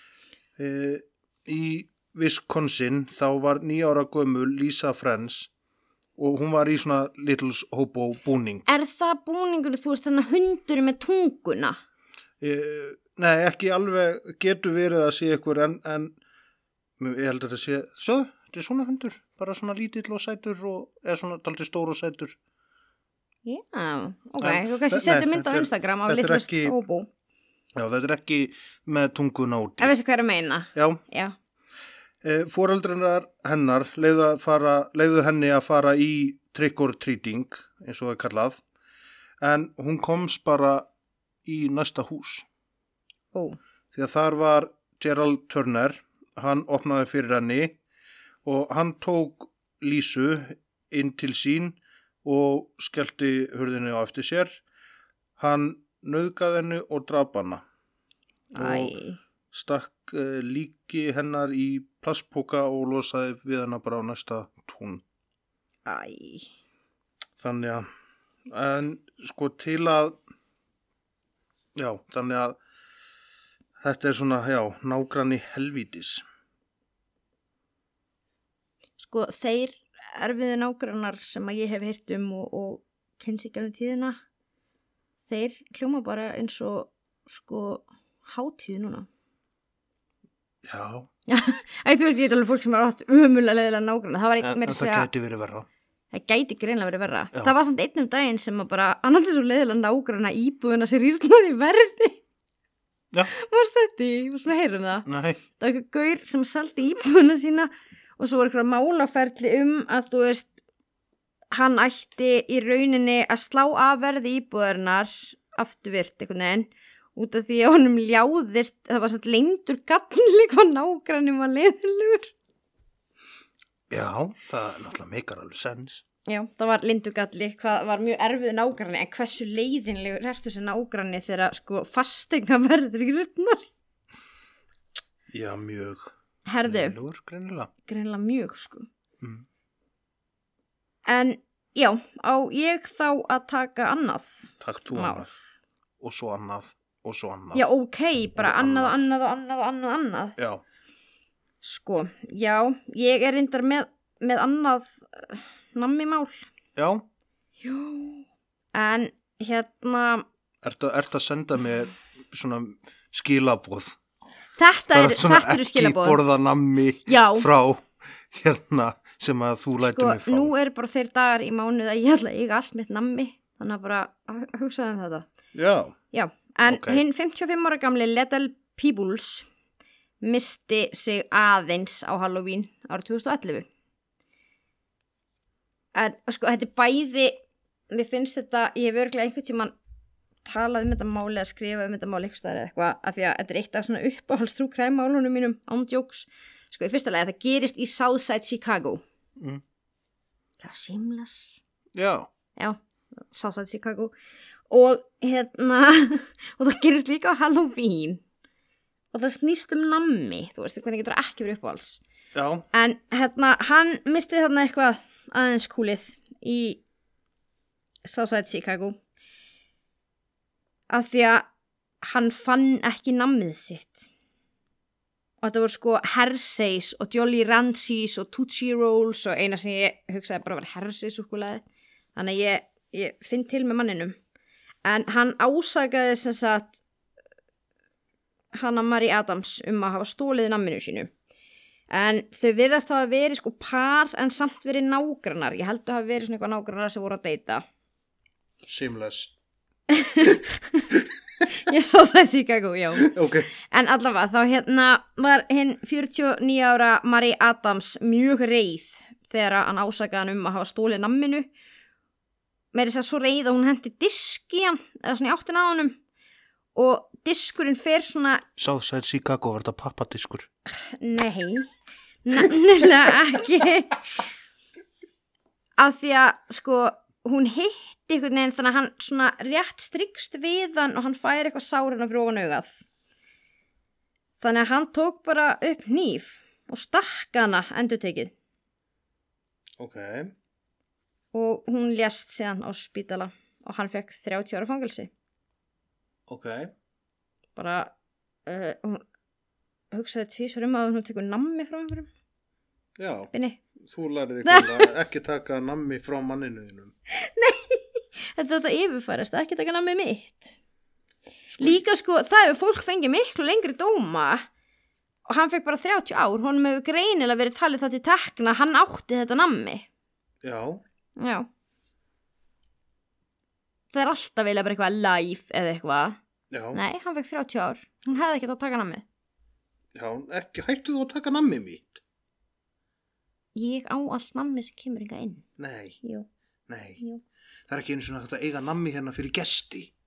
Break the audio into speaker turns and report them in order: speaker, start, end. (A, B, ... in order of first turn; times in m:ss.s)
0:00.6-0:05.5 A
0:06.2-0:08.7 A
0:08.7-0:11.8 B
0:12.4-0:16.2 A
0:17.0-0:22.4 A
0:23.4-0:27.1 B
0:24.4-0:26.8 A
0:27.8-0:29.9 A
0:29.8-0:31.4 B
0:30.8-0:31.0 A
0:32.2-0:38.6 A
0:39.4-0:40.9 A
0:41.4-0:42.5 A
0:43.3-0:43.6 B
0:43.9-0:47.8 A
0:48.4-0:54.6 A
0:55.4-0:57.6 A
0:58.5-0:59.2 B
0:58.6-0:59.0 A
0:59.5-1:05.0 A
1:05.8-1:06.5 B
1:07.4-1:07.9 A
1:08.5-1:10.2 A
1:11.8-1:12.6 A
1:13.8-1:16.2 A
1:19.0-1:24.2 B
1:25.3-1:29.1 B
1:30.6-1:31.1 A
1:31.3-1:35.1 B
1:34.4-1:35.7 A
1:36.1-1:42.2 B
1:43.3-1:45.1 B
1:45.1-1:45.4 A
1:45.6-1:50.5 B
1:51.5-2:02.3 B
2:03.9-2:06.0 A
2:06.3-2:13.7 B
2:15.3-2:16.1 A
2:16.5-2:17.0 B
2:16.6-2:17.7 A
2:17.9-2:18.9 B
2:21.1-2:25.3 B
2:24.6-2:25.4 A
2:26.0-2:27.6 A
2:27.5-2:30.4 B
2:28.4-2:29.0 A
2:31.6-2:36.4 B
2:36.8-2:37.0 A
2:37.6-2:40.3 B
2:40.6-2:44.0 A
2:44.6-2:46.2 B
2:44.9-2:50.5 A
2:47.1-2:47.5 B
2:49.8-2:55.3 B
2:55.5-2:56.0 A
2:56.1-2:59.5 B
2:56.6-2:57.0 A
3:00.2-3:03.7 B
3:05.9-3:07.4 B
3:07.9-3:09.7 B
3:10.4-3:19.0 B
3:20.6-3:21.6 B
3:22.0-3:22.3 A
3:22.6-3:24.2 B
3:24.7-3:28.2 B
3:29.1-3:32.0 B
3:32.3-3:32.7 A
3:32.7-3:36.8 B
3:38.0-3:39.0 B
3:40.9-3:41.5 B
3:42.0-3:44.1 B
3:45.4-3:51.6 B
3:52.2-3:54.2 B
3:54.8-3:56.8 B
3:58.5-4:01.1 B
4:01.9-4:07.6 B
4:08.7-4:09.3 A
4:09.9-4:10.9 B
4:11.5-4:21.5 B
4:13.0-4:13.5 A
4:22.7-4:26.0 B
4:26.8-4:28.4 B
4:28.6-4:30.5 A
4:30.7-4:31.7 B
4:32.2-4:34.0 B
4:35.8-4:42.8 B
4:44.4-4:48.3 B
4:49.8-4:50.3 A
4:51.3-4:55.1 B
4:56.3-4:56.7 A
4:57.6-4:57.9 B
4:58.5-4:59.0 B
4:59.9-5:02.1 B
5:03.0-5:06.9 A
5:03.3-5:03.6 B
5:04.4-5:04.9 B
5:07.1-5:10.6 B
5:11.6-5:14.4 B
5:15.3-5:19.9 B
5:20.4-5:20.8 A
5:21.2-5:21.5 B
5:23.9-5:26.2 B
5:26.5-5:26.8 A
5:26.7-5:29.0 B
5:30.0-5:32.0 A
5:33.6-5:35.4 B
5:35.6-5:36.0 A
5:36.7-5:37.0 A
5:37.7-5:39.9 A